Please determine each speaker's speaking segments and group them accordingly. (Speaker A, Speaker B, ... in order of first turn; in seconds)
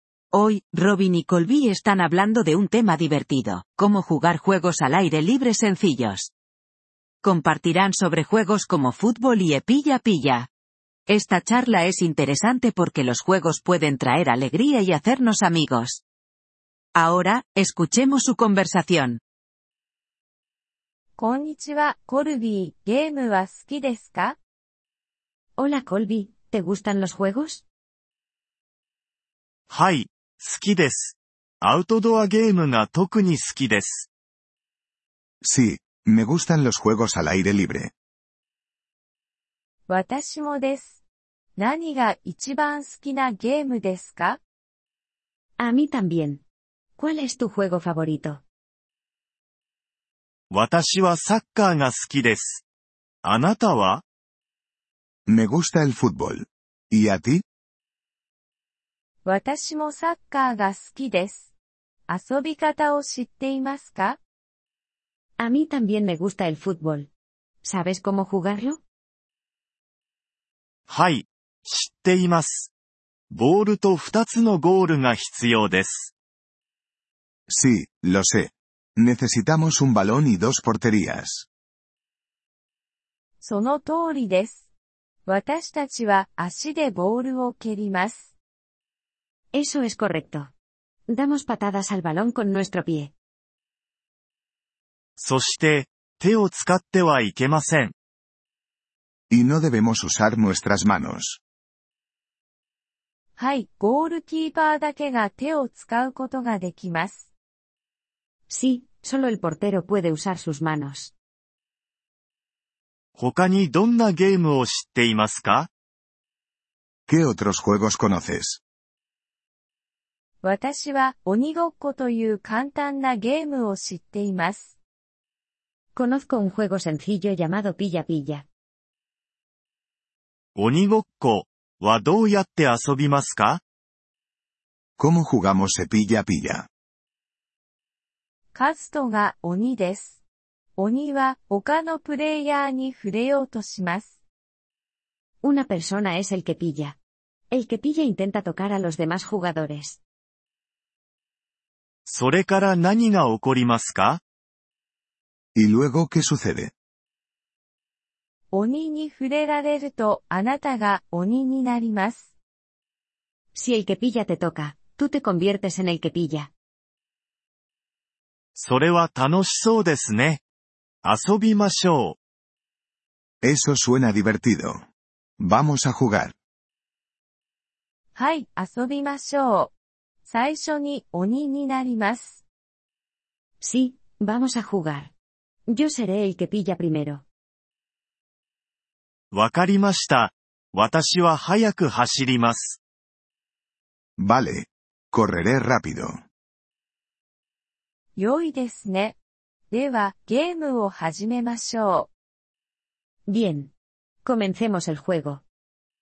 Speaker A: 0.3-6.3, 7.2-10.5, 11.1-16.0, 16.9-19.2
Speaker B: 21.2-24.4, 39.9-40.9, 41.6-44.4, 59.2-61.5, 62.1-64.2, 83.4-84.6, 85.2-88.2, 103.3-107.2, 120.4-124.7, 138.5-140.2, 140.8-144.1, 158.5-162.3, 178.1-179.7, 180.2-182.4, 198.2-199.2, 199.7-202.1
Speaker C: 25.6-27.6, 45.6-46.4, 47.0-48.4, 65.4-67.1, 67.6-68.8, 89.5-90.5, 91.1-93.1, 108.5-111.1, 125.9-128.4, 145.4-147.0, 147.5-150.0, 163.5-166.5, 183.6-185.1, 185.7-187.2, 203.3-203.7, 204.2-205.4
Speaker D: 29.7-34.1, 50.5-52.6, 53.2-54.0, 70.9-72.7, 73.3-76.1, 95.2-97.9, 113.2-115.7, 130.5-133.6, 152.1-154.2, 168.5-170.4, 171.0-172.2, 189.3-192.8
Speaker E: 35.4-37.9, 55.3-57.4, 77.5-81.5, 99.3-101.4, 117.1-118.6, 135.0-136.7, 155.5-156.7, 173.4-174.8, 175.4-176.3, 194.2-196.2